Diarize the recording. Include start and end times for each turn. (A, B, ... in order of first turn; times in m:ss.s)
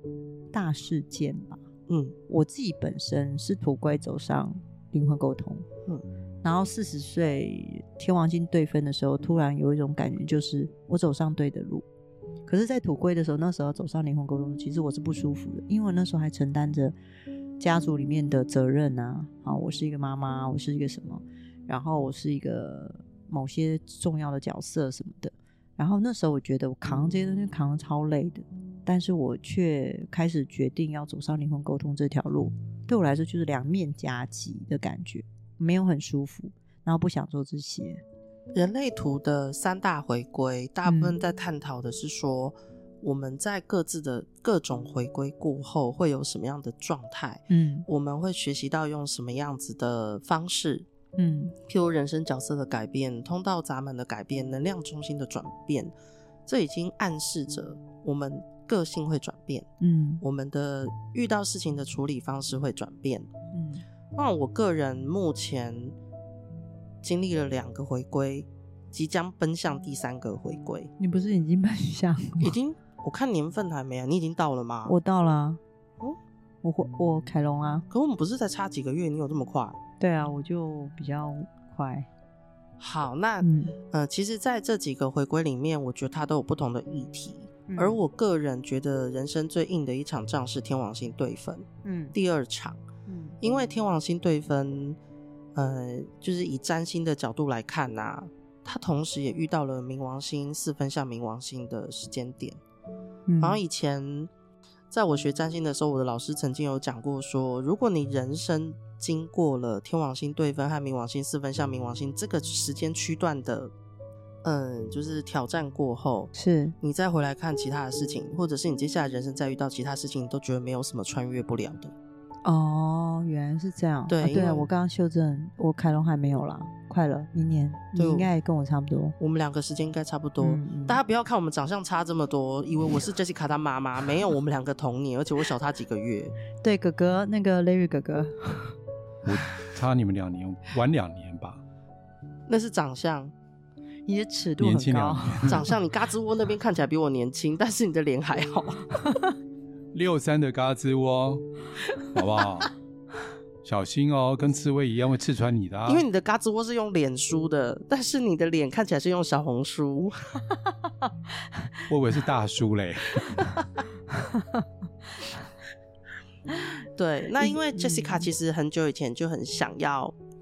0:00.5-0:01.6 A
0:01.9-0:02.2 B
0:02.3-0:05.6 A
0:06.4-0:11.8 A
0:12.4-0:16.9 A
0:17.6-0:38.0 A
0:38.5-0:50.8 B
0:40.8-0:41.2 A
0:47.5-0:47.8 A
0:51.2-0:51.5 A
0:51.7-0:55.9 B
0:56.5-0:59.7 B
0:59.8-1:00.2 A
1:00.2-1:03.3 B
1:03.5-1:03.8 A
1:04.2-1:05.9 B
1:07.0-1:10.9 B
1:11.0-1:12.5 A
1:12.4-1:14.9 B
1:14.8-1:15.6 A
1:16.6-1:17.8 A
1:17.9-1:19.8 B
1:20.0-1:22.1 A
1:22.8-1:32.8 B
1:23.4-1:23.8 A
1:27.7-1:28.0 A
1:31.8-1:32.1 A
1:33.1-1:33.4 A
1:33.4-1:35.0 B
1:35.5-1:42.6 B
1:43.3-1:43.6 A
1:43.4-1:44.3 B
1:44.9-1:53.7 B
1:54.4-2:01.9 B
1:56.3-1:56.7 A
2:02.4-2:09.1 A
2:04.1-2:04.7 B
2:08.0-2:08.3 B
2:09.2-2:16.3 B
2:10.4-2:11.0 A
2:16.6-2:18.8 A
2:19.2-2:21.6 C
2:22.5-2:23.3 B
2:24.0-2:25.7 A
2:24.6-2:25.7 C
2:25.5-2:29.0 B
2:29.9-2:31.5 C
2:32.1-2:32.7 C
2:33.6-2:36.0 C
2:35.9-2:40.2 B
2:41.9-2:43.4 C
2:44.1-2:44.6 A
2:47.0-2:50.1 B
2:47.4-2:48.3 A